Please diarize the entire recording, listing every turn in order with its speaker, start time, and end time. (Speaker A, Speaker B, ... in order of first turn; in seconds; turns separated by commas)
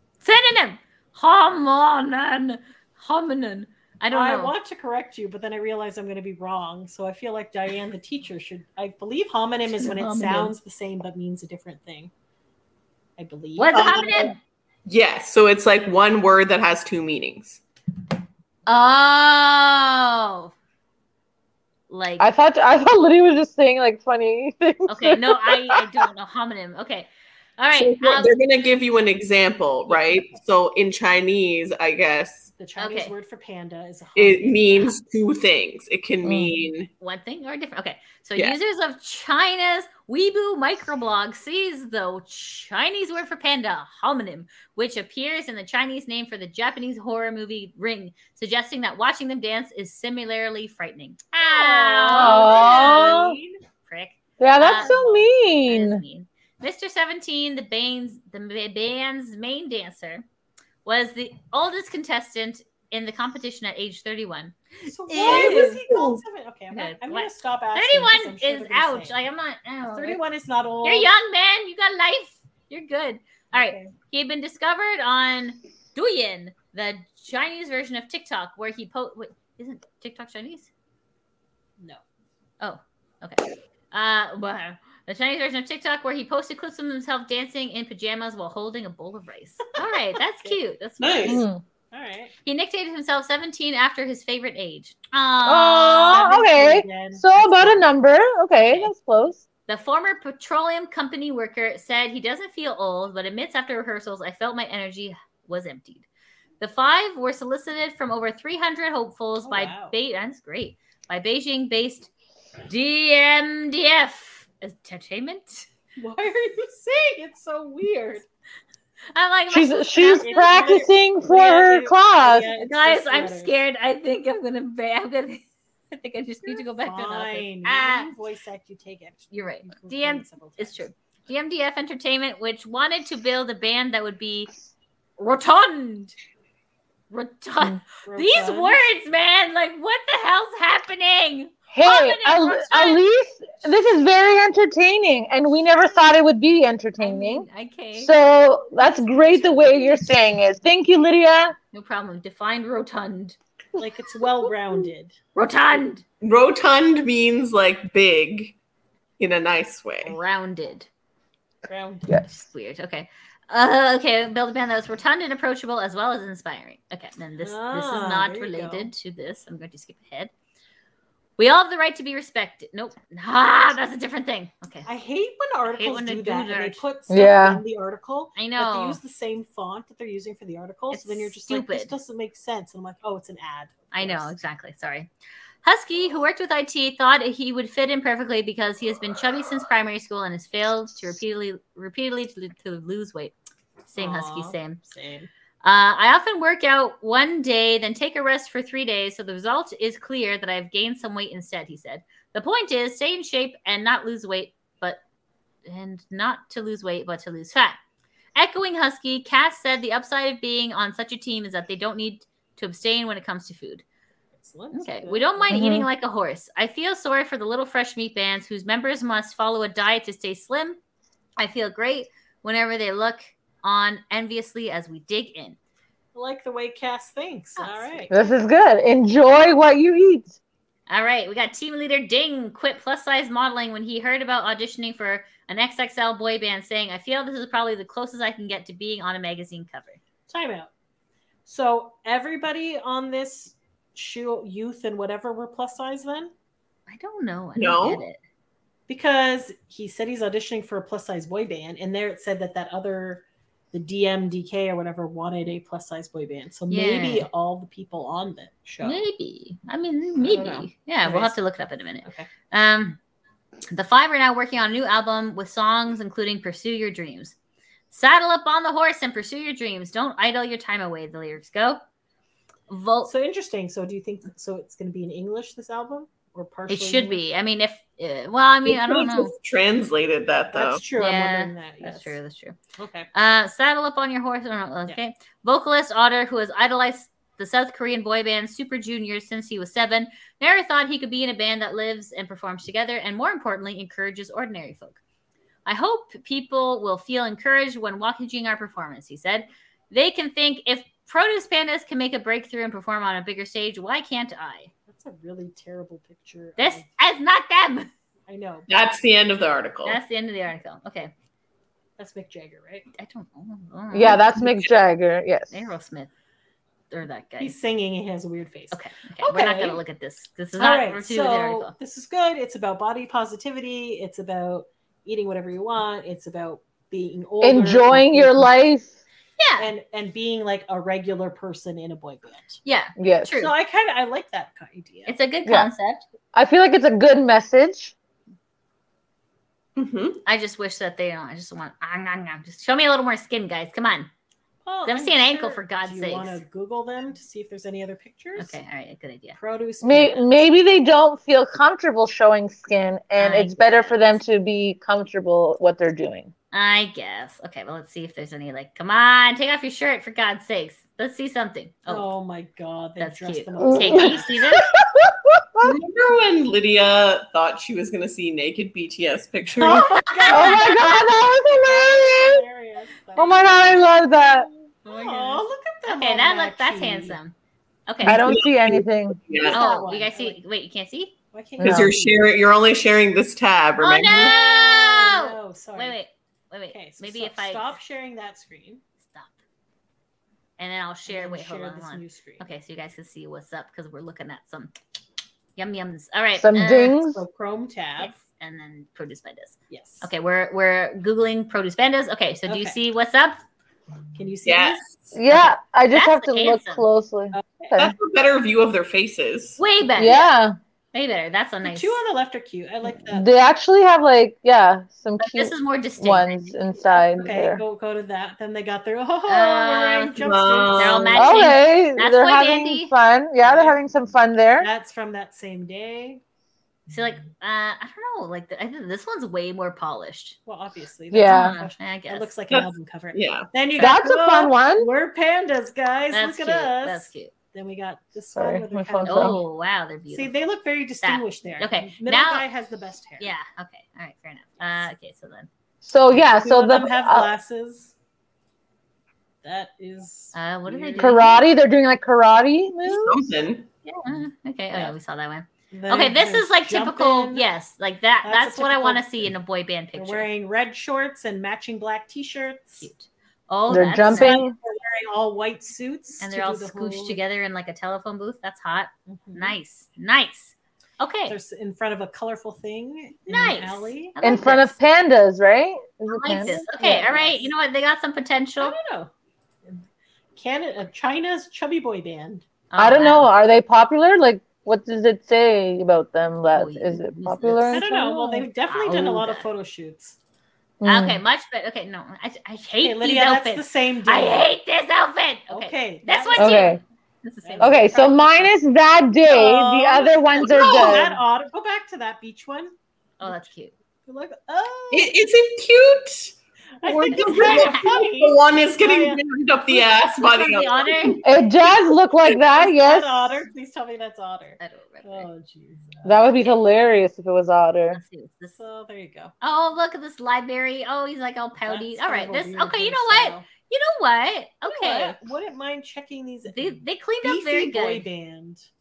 Speaker A: 0.2-4.5, Speaker B: 4.1-12.1, Speaker A: 9.8-10.5, Speaker B: 13.2-14.3, Speaker A: 13.6-14.4, Speaker C: 13.7-14.3, Speaker C: 14.9-17.6, Speaker A: 18.7-20.5, Speaker A: 21.9-22.3, Speaker D: 22.2-26.0, Speaker A: 24.9-28.3, Speaker C: 27.7-32.5, Speaker B: 29.9-30.4, Speaker B: 32.6-35.0, Speaker A: 32.8-33.1, Speaker C: 34.2-36.9, Speaker D: 36.2-36.5, Speaker A: 37.0-60.2, Speaker B: 51.4-53.6, Speaker D: 52.1-53.4, Speaker D: 54.4-56.0, Speaker B: 54.8-55.2, Speaker A: 60.9-65.8, Speaker B: 64.9-69.2, Speaker C: 65.2-66.2, Speaker A: 66.7-70.2, Speaker B: 69.9-71.1, Speaker A: 70.8-80.7, Speaker B: 73.5-73.9, Speaker A: 82.6-91.4, Speaker C: 91.0-91.4, Speaker D: 91.2-91.6, Speaker B: 91.9-92.3, Speaker A: 92.5-96.3, Speaker D: 95.5-99.4, Speaker B: 96.0-97.9, Speaker A: 98.6-98.9, Speaker A: 99.7-106.1, Speaker A: 106.6-112.1, Speaker B: 109.4-109.9, Speaker A: 112.7-115.7, Speaker B: 116.0-118.3, Speaker A: 119.2-120.6, Speaker D: 119.5-122.5, Speaker B: 120.1-123.5, Speaker A: 122.5-128.1, Speaker B: 126.4-130.9, Speaker A: 129.3-134.5, Speaker A: 135.2-136.2, Speaker A: 137.1-143.0, Speaker B: 138.1-138.9, Speaker D: 141.7-151.6, Speaker A: 147.0-148.1, Speaker A: 148.9-150.0, Speaker A: 151.7-153.4, Speaker B: 153.8-155.2, Speaker A: 155.3-156.0, Speaker C: 156.2-158.6, Speaker C: 159.2-160.2, Speaker A: 160.0-160.9, Speaker B: 161.7-162.3, Speaker A: 162.2-170.3, Speaker B: 167.4-168.9, Speaker A: 171.4-174.9, Speaker B: 174.9-184.3, Speaker A: 175.7-176.8, Speaker D: 177.1-177.6, Speaker A: 178.4-179.0, Speaker A: 180.9-181.9, Speaker A: 183.9-185.1, Speaker A: 185.6-193.3, Speaker A: 193.9-194.8, Speaker B: 194.0-195.3, Speaker A: 195.6-205.0, Speaker A: 205.7-207.8, Speaker A: 208.3-213.8, Speaker B: 214.4-215.7, Speaker A: 214.7-220.8, Speaker D: 215.5-215.9, Speaker A: 221.4-225.6, Speaker B: 226.1-228.1, Speaker A: 227.6-228.1, Speaker D: 228.1-230.3, Speaker A: 230.9-240.0, Speaker B: 240.3-240.7, Speaker B: 241.5-246.3, Speaker A: 246.9-248.2, Speaker C: 247.6-248.0, Speaker B: 248.9-259.0, Speaker A: 256.7-257.3, Speaker A: 258.8-263.0, Speaker B: 260.2-261.4, Speaker B: 262.0-262.3, Speaker A: 263.7-267.4, Speaker A: 267.9-271.8, Speaker A: 272.7-273.1, Speaker B: 273.1-277.2, Speaker A: 276.7-279.3, Speaker C: 278.7-280.8, Speaker B: 280.5-282.2, Speaker A: 280.9-282.6, Speaker B: 282.8-283.1, Speaker A: 283.1-295.0, Speaker A: 295.7-304.7, Speaker B: 304.9-306.9, Speaker A: 306.6-307.9, Speaker B: 308.3-308.7, Speaker C: 308.7-310.0, Speaker A: 309.8-311.1, Speaker B: 312.0-312.9, Speaker A: 312.9-314.4, Speaker D: 313.9-315.5, Speaker A: 315.5-316.1, Speaker A: 316.9-317.6, Speaker B: 317.4-319.8, Speaker A: 318.7-321.7, Speaker B: 320.6-328.5, Speaker D: 327.4-329.0, Speaker A: 329.4-329.7, Speaker B: 329.6-332.6, Speaker A: 332.6-333.5, Speaker D: 333.0-333.3, Speaker B: 333.3-335.2, Speaker A: 335.1-336.0, Speaker D: 335.4-335.7, Speaker D: 336.3-337.9, Speaker C: 339.8-340.2, Speaker A: 340.2-344.1, Speaker B: 344.6-348.6, Speaker A: 344.9-346.4, Speaker A: 348.4-349.4, Speaker B: 349.4-350.2, Speaker D: 349.8-356.3, Speaker A: 353.2-353.9, Speaker A: 356.5-362.1, Speaker B: 361.9-364.3, Speaker A: 363.0-364.7, Speaker D: 363.6-365.7, Speaker C: 365.6-370.3, Speaker B: 369.5-374.0, Speaker A: 369.7-370.7, Speaker D: 370.3-372.4, Speaker D: 373.2-374.5, Speaker B: 374.9-377.2, Speaker A: 374.9-377.4, Speaker A: 377.9-378.2, Speaker C: 378.0-379.6, Speaker D: 378.0-379.2, Speaker B: 379.4-380.4, Speaker A: 379.5-381.1, Speaker B: 381.3-382.3, Speaker D: 381.6-381.9, Speaker C: 381.6-384.4, Speaker A: 383.8-387.8, Speaker B: 384.1-386.0, Speaker B: 386.7-388.8, Speaker A: 389.0-389.4, Speaker A: 390.6-394.7, Speaker B: 391.1-392.5, Speaker A: 395.6-397.0, Speaker D: 396.4-397.2, Speaker B: 397.0-398.1, Speaker A: 398.0-403.4, Speaker B: 399.7-400.1, Speaker B: 402.5-402.8, Speaker B: 404.1-405.5, Speaker C: 404.4-404.9, Speaker D: 405.1-407.9, Speaker A: 405.9-406.9, Speaker B: 407.3-407.8, Speaker C: 407.8-409.6, Speaker A: 409.6-410.3, Speaker D: 410.0-410.6, Speaker A: 410.9-412.0, Speaker B: 411.6-413.3, Speaker D: 413.1-417.6, Speaker A: 415.2-416.5, Speaker B: 417.0-421.5, Speaker A: 419.3-422.9, Speaker C: 420.2-421.1, Speaker D: 421.1-424.7, Speaker B: 423.4-423.8, Speaker B: 424.6-426.2, Speaker A: 426.9-430.4, Speaker B: 430.5-439.4, Speaker D: 431.1-431.6, Speaker A: 431.2-432.3, Speaker C: 432.5-433.5, Speaker D: 433.8-434.9, Speaker A: 436.1-437.3, Speaker D: 438.4-439.4, Speaker A: 439.1-440.3, Speaker B: 440.1-443.3, Speaker A: 441.0-442.4, Speaker A: 443.2-445.5, Speaker B: 444.6-444.9, Speaker D: 445.8-447.3, Speaker B: 446.1-447.9, Speaker B: 449.4-451.4, Speaker A: 450.3-451.4, Speaker D: 451.0-453.2, Speaker C: 452.9-453.7, Speaker A: 453.9-460.3, Speaker B: 455.7-457.5, Speaker B: 458.2-459.3, Speaker B: 459.9-462.9, Speaker A: 462.8-464.4, Speaker D: 463.7-464.6, Speaker B: 464.0-467.2, Speaker A: 466.2-471.4, Speaker B: 469.1-469.6, Speaker B: 471.3-474.2, Speaker A: 473.3-474.8, Speaker D: 474.2-477.1, Speaker A: 476.1-478.8, Speaker B: 476.3-477.5, Speaker B: 478.6-479.1, Speaker B: 480.4-482.5, Speaker A: 482.7-483.3, Speaker D: 482.8-488.5, Speaker A: 486.5-487.9, Speaker B: 487.7-490.2, Speaker A: 488.7-489.5, Speaker D: 490.8-491.2, Speaker A: 490.9-498.0, Speaker B: 492.8-494.5, Speaker B: 495.5-496.8, Speaker D: 496.4-496.8, Speaker B: 497.4-498.5, Speaker D: 497.6-501.2, Speaker B: 499.3-503.5, Speaker A: 503.2-503.7, Speaker B: 504.1-505.1, Speaker C: 504.9-511.2, Speaker B: 506.8-509.2, Speaker A: 507.1-507.9, Speaker A: 510.1-511.2, Speaker D: 511.2-513.4, Speaker B: 512.4-516.4, Speaker A: 514.6-515.3, Speaker D: 516.0-518.0, Speaker A: 517.9-518.6, Speaker B: 518.5-519.3, Speaker A: 519.4-525.2, Speaker B: 521.6-523.5, Speaker B: 524.7-528.7, Speaker A: 526.5-528.1